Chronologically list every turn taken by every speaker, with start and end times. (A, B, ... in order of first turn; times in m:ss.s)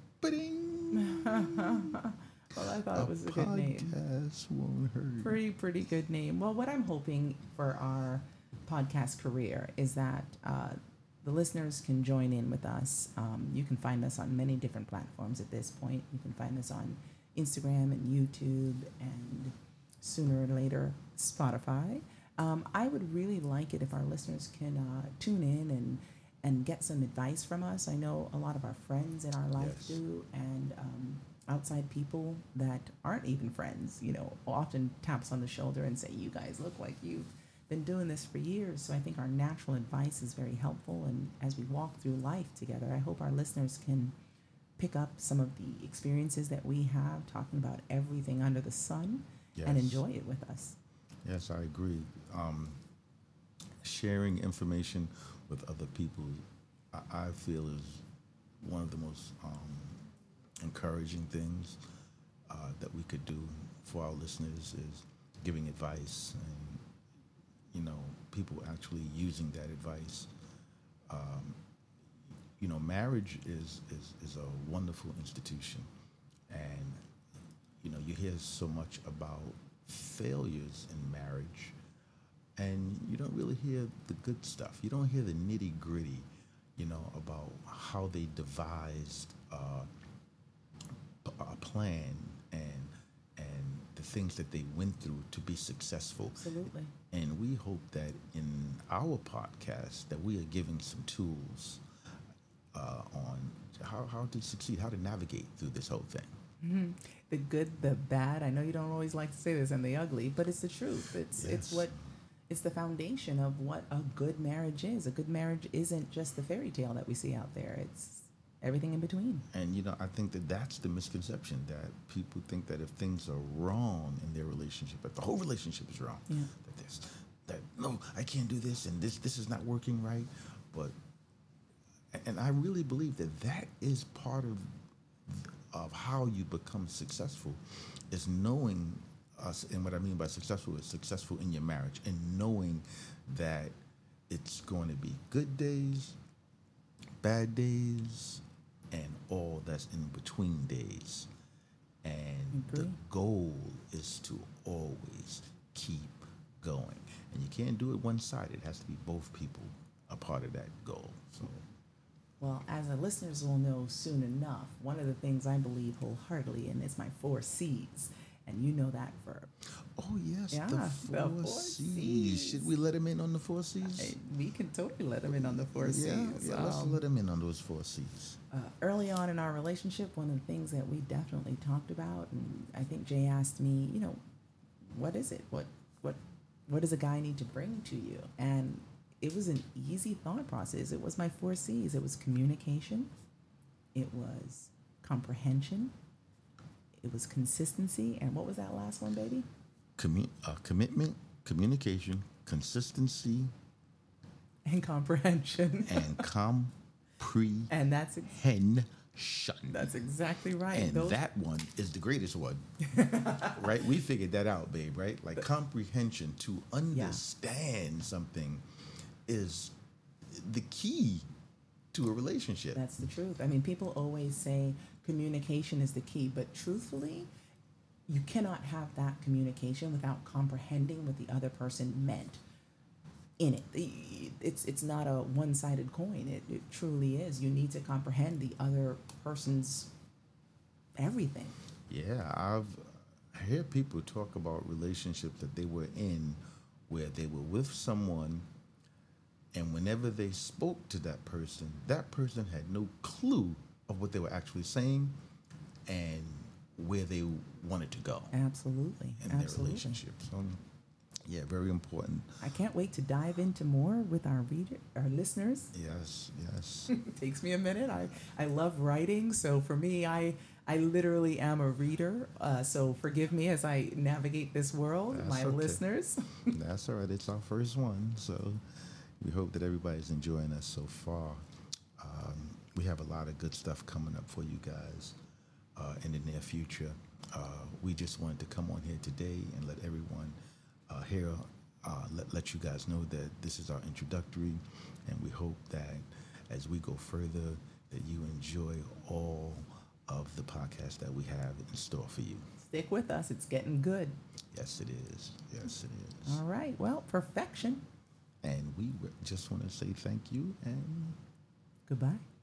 0:00.2-0:02.0 A
0:00.9-0:04.0 B
0:02.6-0:05.4 A
0:05.2-0:44.1 B
0:29.6-0:30.0 A
0:44.8-0:50.8 B
0:49.6-0:50.0 A
0:51.2-0:52.8 A
0:53.8-0:58.1 A
0:58.6-1:00.0 A
1:00.6-1:01.8 A
1:02.5-1:06.8 A
1:07.7-1:10.3 A
1:11.1-1:11.6 A
1:12.6-1:15.9 A
1:16.5-1:17.0 A
1:17.8-1:21.8 A
1:22.6-1:29.9 A
1:31.2-1:36.4 A
1:36.4-1:36.9 B
1:37.1-1:41.8 A
1:42.7-1:46.4 A
1:46.6-1:52.0 B
1:51.3-1:52.0 A
1:52.5-1:59.4 B
1:59.5-2:11.0 A
2:12.1-2:23.8 A
2:24.3-2:26.2 A
2:27.2-2:31.3 A
2:32.0-2:41.6 A
2:32.5-2:33.0 B
2:42.4-2:49.5 B
2:50.0-2:54.2 A
2:50.5-2:52.7 B
2:53.8-2:57.0 B
2:55.3-2:58.4 A
2:58.5-3:04.2 B
3:04.8-3:13.1 B
3:14.0-3:15.9 B
3:17.0-3:19.5 B
3:20.0-3:23.5 A
3:24.7-3:26.2 B
3:25.8-3:27.7 A
3:27.7-3:28.4 B
3:28.2-3:30.0 A
3:29.7-3:31.2 B
3:30.7-3:32.6 A
3:32.9-3:33.7 B
3:33.3-3:38.6 A
3:36.9-3:37.2 B
3:39.3-3:39.8 A
3:40.3-3:41.3 A
3:41.9-3:42.8 A
3:42.7-3:47.3 B
3:48.1-3:52.4 B
3:53.4-3:59.9 B
4:01.0-4:01.6 B
4:01.9-4:08.5 A
4:09.5-4:15.2 A
4:15.9-4:18.3 A
4:18.3-4:20.0 B
4:19.2-4:20.6 A
4:21.2-4:22.4 A
4:22.4-4:25.7 B
4:25.7-4:26.9 A
4:26.9-4:36.5 B
4:35.1-4:35.8 A
4:36.5-4:41.4 A
4:42.0-4:45.2 A
4:45.8-4:50.4 A
4:50.9-5:02.4 A
5:02.6-5:04.2 B
5:04.5-5:06.4 A
5:06.3-5:07.8 B
5:08.4-5:11.2 A
5:11.9-5:12.2 B